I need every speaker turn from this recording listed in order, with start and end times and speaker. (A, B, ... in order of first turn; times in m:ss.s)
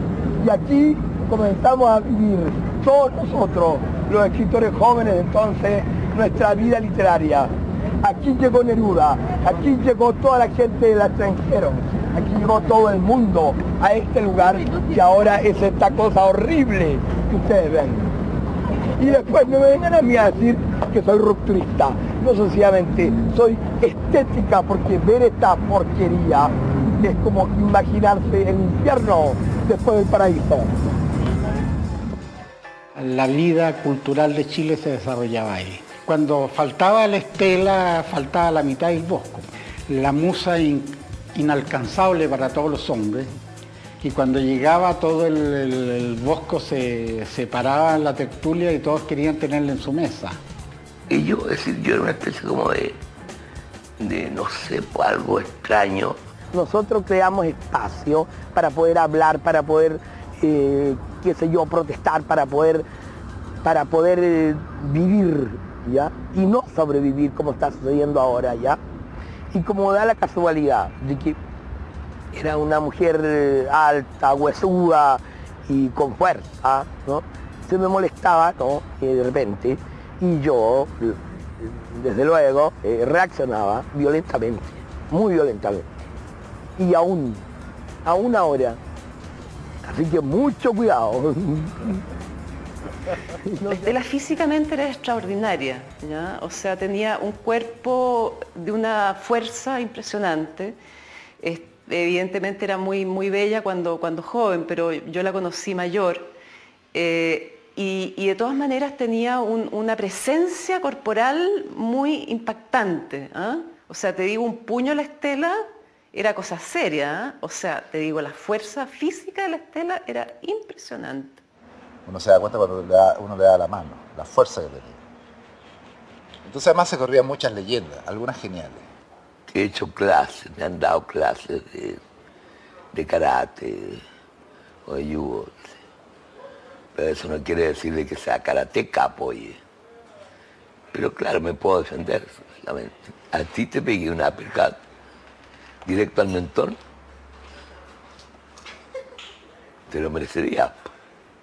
0:00.4-0:18.0 A
0:19.0-0:30.7 A
0:33.0-0:43.3 B
0:44.0-0:50.4 B
0:51.1-0:53.0 C
0:54.0-0:56.2 C
0:56.5-1:02.8 A
1:03.6-1:08.8 A
1:09.5-1:11.4 A
1:12.3-1:25.8 A
1:26.8-1:27.4 A
1:28.0-1:28.8 A
1:29.8-1:32.0 A
1:33.4-1:33.9 A
1:33.6-1:40.8 D
1:41.4-1:46.3 D
1:46.9-2:01.4 D
2:02.0-2:05.0 E
2:06.4-2:08.9 E
2:09.5-2:12.0 C
2:12.9-2:14.0 C
2:14.8-2:15.8 C
2:16.9-2:19.6 C
2:20.9-2:24.8 C
2:25.8-2:26.8 C
2:29.9-2:30.9 C